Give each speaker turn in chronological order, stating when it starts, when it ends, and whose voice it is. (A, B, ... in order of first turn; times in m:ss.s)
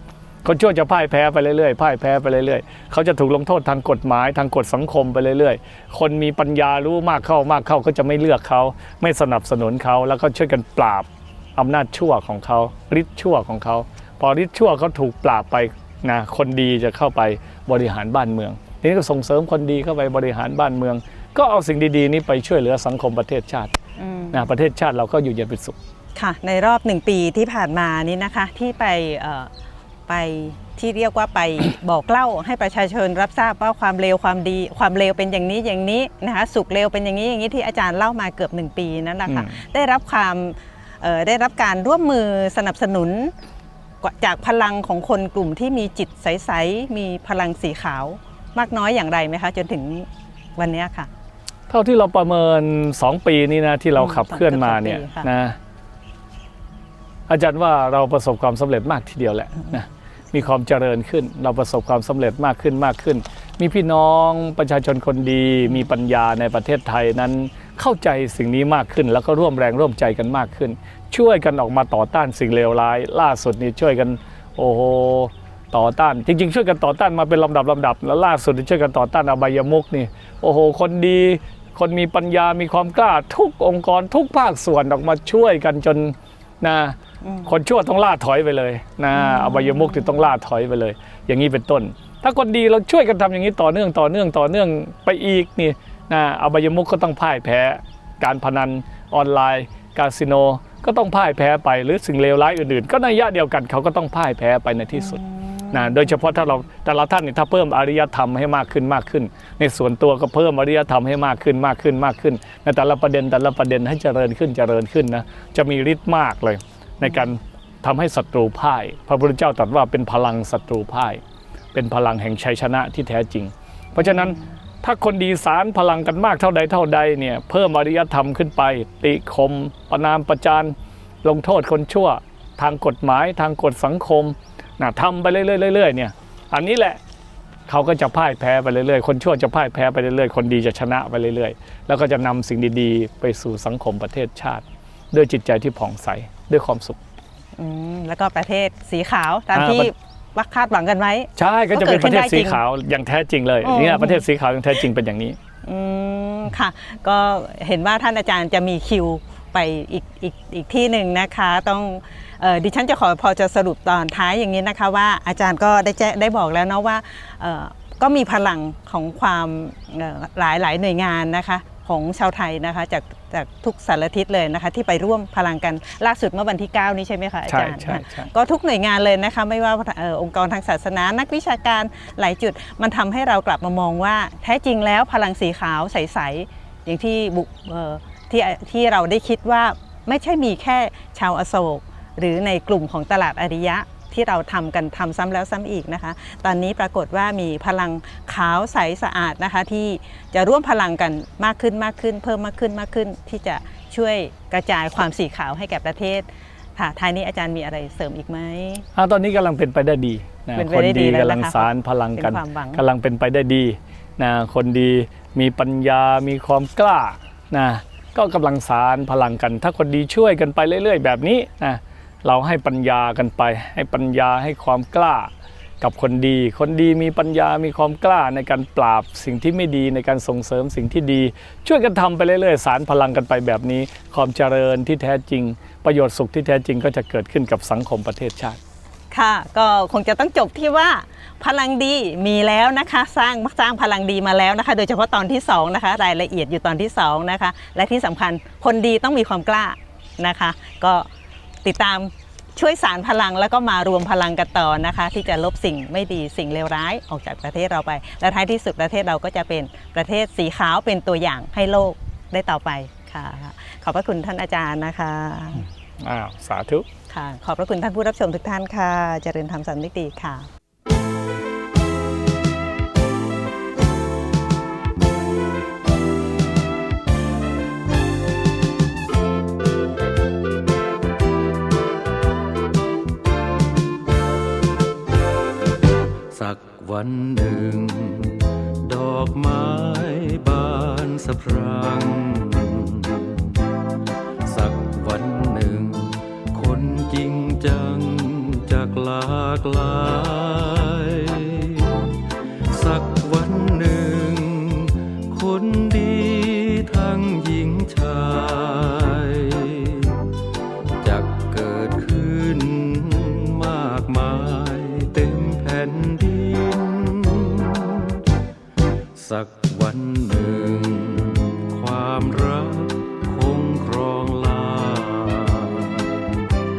0:00.4-0:23.7 A
0:24.0-0:24.4 B
0:24.3-0:25.8 A
0:26.2-0:29.5 B
0:30.1-0:43.3 B
0:39.3-0:39.6 A
0:44.0-0:51.1 B
0:51.7-0:55.6 A
0:54.0-0:55.3 B
0:57.3-1:45.2 A
1:27.2-1:27.5 B
1:29.1-1:30.0 B
1:45.0-1:46.3 B
1:45.7-2:01.2 A
2:01.7-2:17.0 A
2:04.0-2:04.4 B
2:17.7-2:27.0 A
2:27.6-2:32.6 B
2:29.5-2:29.9 A
2:31.4-2:35.4 A
2:33.6-2:34.2 B
2:35.6-3:28.9 B
2:57.5-2:58.3 A
3:29.0-3:58.6 A
3:30.6-3:32.8 B
3:59.1-4:11.1 B
4:11.6-4:25.7 B
4:26.0-4:26.9 A
4:27.1-4:30.5 B
4:46.3-4:53.6 C
4:54.4-5:10.4 C
5:11.0-5:18.2 C
5:19.2-5:26.5 C